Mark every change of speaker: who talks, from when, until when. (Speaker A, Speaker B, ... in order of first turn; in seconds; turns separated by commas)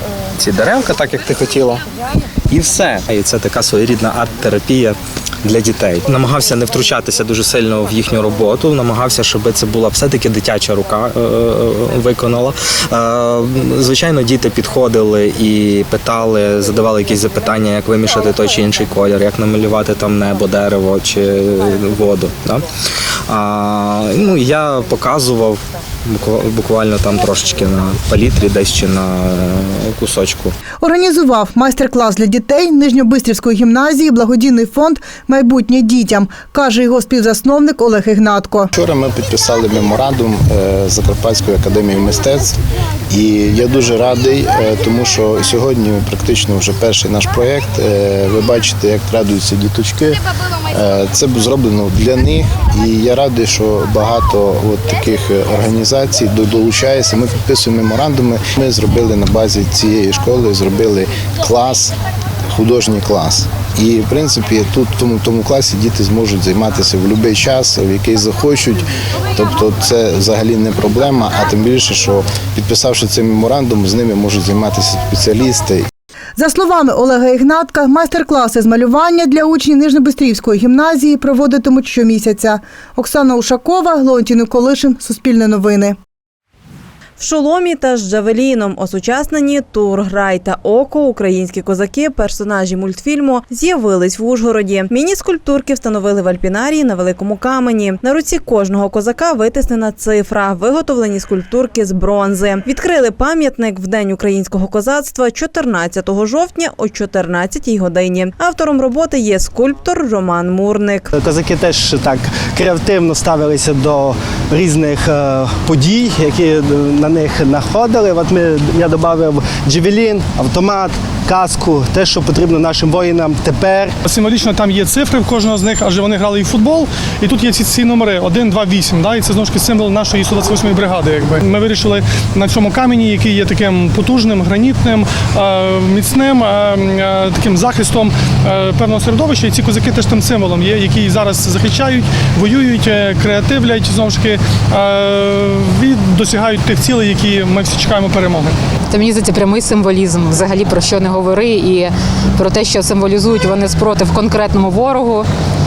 Speaker A: 0.5-0.8, Speaker A: 2.5-22.6, Speaker A: 23.3-30.5, Speaker B: 30.8-38.7, Speaker C: 38.7-42.6, Speaker C: 43.1-61.9, Speaker C: 62.5-75.9, Speaker B: 76.4-86.0, Speaker D: 87.2-111.1, Speaker E: 111.1-124.0, Speaker F: 124.0-148.6, Speaker G: 148.9-155.3